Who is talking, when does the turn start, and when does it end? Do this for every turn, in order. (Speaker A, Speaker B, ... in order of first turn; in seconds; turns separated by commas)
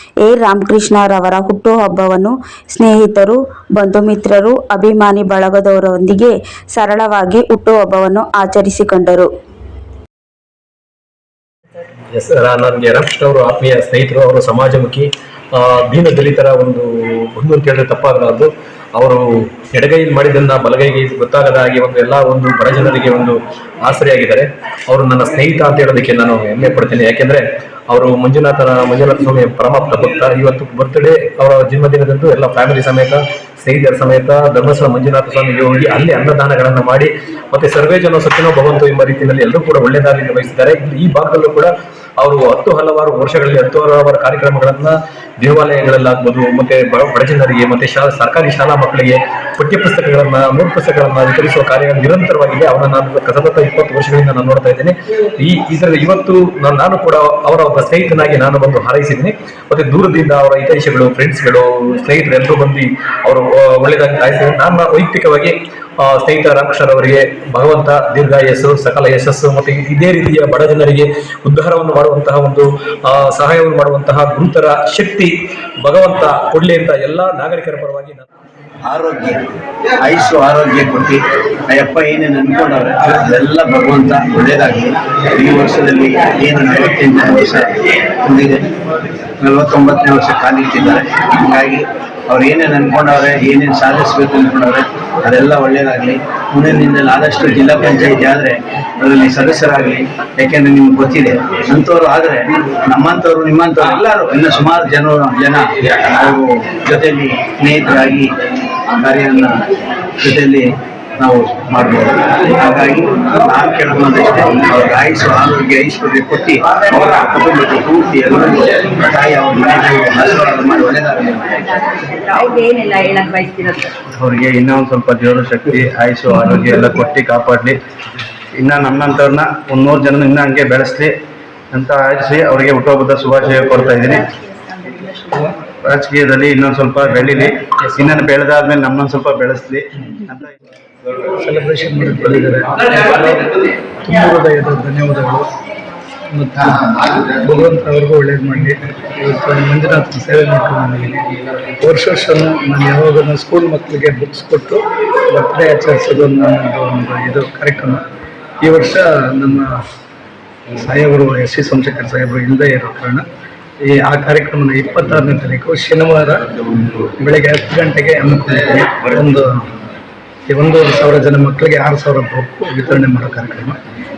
Speaker A: 0.2-9.3, Speaker B: 12.1-78.2, Speaker C: 78.9-79.4, Speaker C: 80.0-88.7, Speaker C: 89.4-108.3, Speaker C: 108.9-109.5, Speaker C: 110.2-110.6, Speaker C: 111.2-121.7, Speaker D: 121.9-123.8, Speaker E: 124.1-127.8, Speaker E: 128.5-131.1, Speaker E: 131.7-134.2, Speaker D: 134.3-135.5, Speaker E: 135.8-140.5, Speaker F: 141.4-145.5, Speaker F: 146.3-158.0, Speaker F: 158.6-159.8, Speaker F: 160.7-163.2, Speaker F: 163.8-169.7, Speaker F: 170.5-173.8